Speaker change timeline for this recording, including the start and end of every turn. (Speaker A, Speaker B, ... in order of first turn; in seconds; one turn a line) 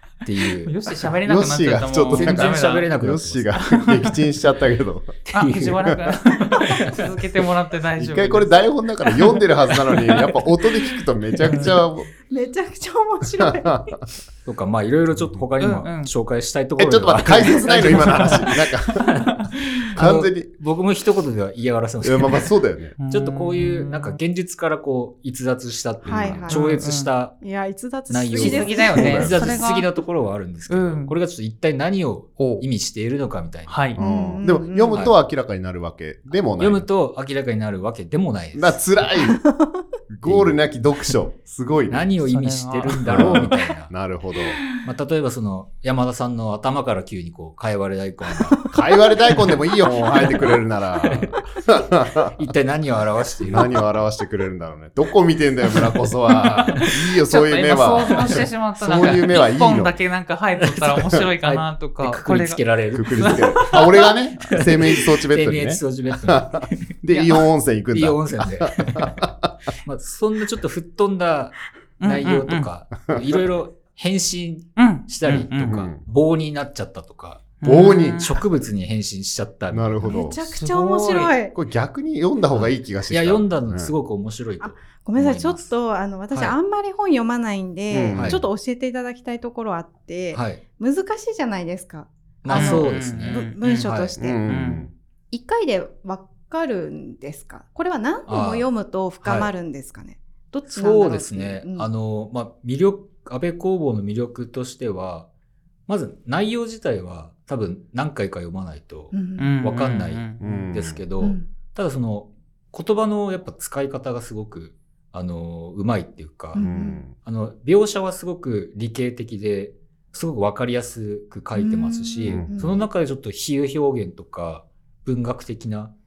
Speaker A: 0.2-0.7
Speaker B: 0.6-2.9
Speaker C: 1.2-5.2
Speaker A: 2.1-3.5
Speaker B: 3.5-4.1
Speaker A: 5.3-5.9
Speaker B: 5.3-8.6
Speaker A: 6.6-7.0
Speaker C: 8.0-12.1
Speaker D: 12.3-13.9
Speaker C: 13.4-14.0
Speaker A: 14.4-18.5
Speaker C: 15.1-15.4
Speaker B: 15.6-16.1
Speaker C: 16.8-19.3
Speaker B: 17.9-18.5
Speaker A: 19.0-22.5
Speaker C: 19.9-20.5
Speaker C: 22.0-22.9
Speaker B: 23.0-24.2
Speaker A: 23.1-27.4
Speaker C: 26.0-26.5
Speaker D: 26.0-26.6
Speaker B: 26.5-27.1
Speaker D: 27.4-29.0
Speaker A: 28.1-33.8
Speaker B: 28.4-29.9
Speaker C: 28.9-29.6
Speaker B: 30.7-31.1
Speaker B: 32.4-32.6
Speaker B: 33.7-34.0
Speaker C: 34.0-36.9
Speaker D: 34.0-35.0
Speaker A: 36.6-38.8
Speaker C: 38.5-39.4
Speaker D: 39.2-39.8
Speaker C: 40.1-42.1
Speaker A: 40.2-40.6
Speaker A: 41.9-43.9
Speaker B: 42.2-43.5
Speaker C: 43.0-44.6
Speaker A: 44.8-48.7
Speaker C: 48.7-52.5
Speaker A: 51.0-51.4
Speaker A: 52.4-53.8
Speaker C: 53.4-59.9
Speaker A: 56.4-56.9
Speaker B: 57.2-63.9
Speaker A: 60.6-66.9
Speaker C: 62.9-69.5
Speaker A: 67.9-69.2
Speaker A: 69.8-80.3
Speaker B: 72.0-72.7
Speaker C: 73.1-73.4
Speaker B: 74.8-75.8
Speaker C: 75.5-76.0
Speaker B: 77.6-78.4
Speaker C: 77.6-78.4
Speaker C: 79.7-80.4
Speaker D: 80.0-81.5
Speaker B: 80.5-81.3
Speaker C: 81.5-83.9
Speaker A: 82.5-85.7
Speaker D: 84.6-94.4
Speaker C: 87.9-88.4
Speaker A: 88.1-88.4
Speaker A: 90.3-90.6
Speaker A: 92.4-94.5
Speaker B: 92.5-93.9
Speaker C: 94.2-94.9
Speaker B: 94.5-94.8
Speaker D: 95.3-101.9
Speaker A: 98.3-98.7
Speaker A: 99.2-99.5
Speaker A: 100.5-105.3
Speaker A: 105.9-125.9
Speaker D: 109.1-109.6
Speaker B: 109.4-110.4
Speaker C: 110.4-111.0
Speaker D: 111.2-111.5
Speaker D: 116.5-117.0
Speaker C: 116.6-117.1
Speaker D: 121.5-122.8
Speaker C: 122.2-122.8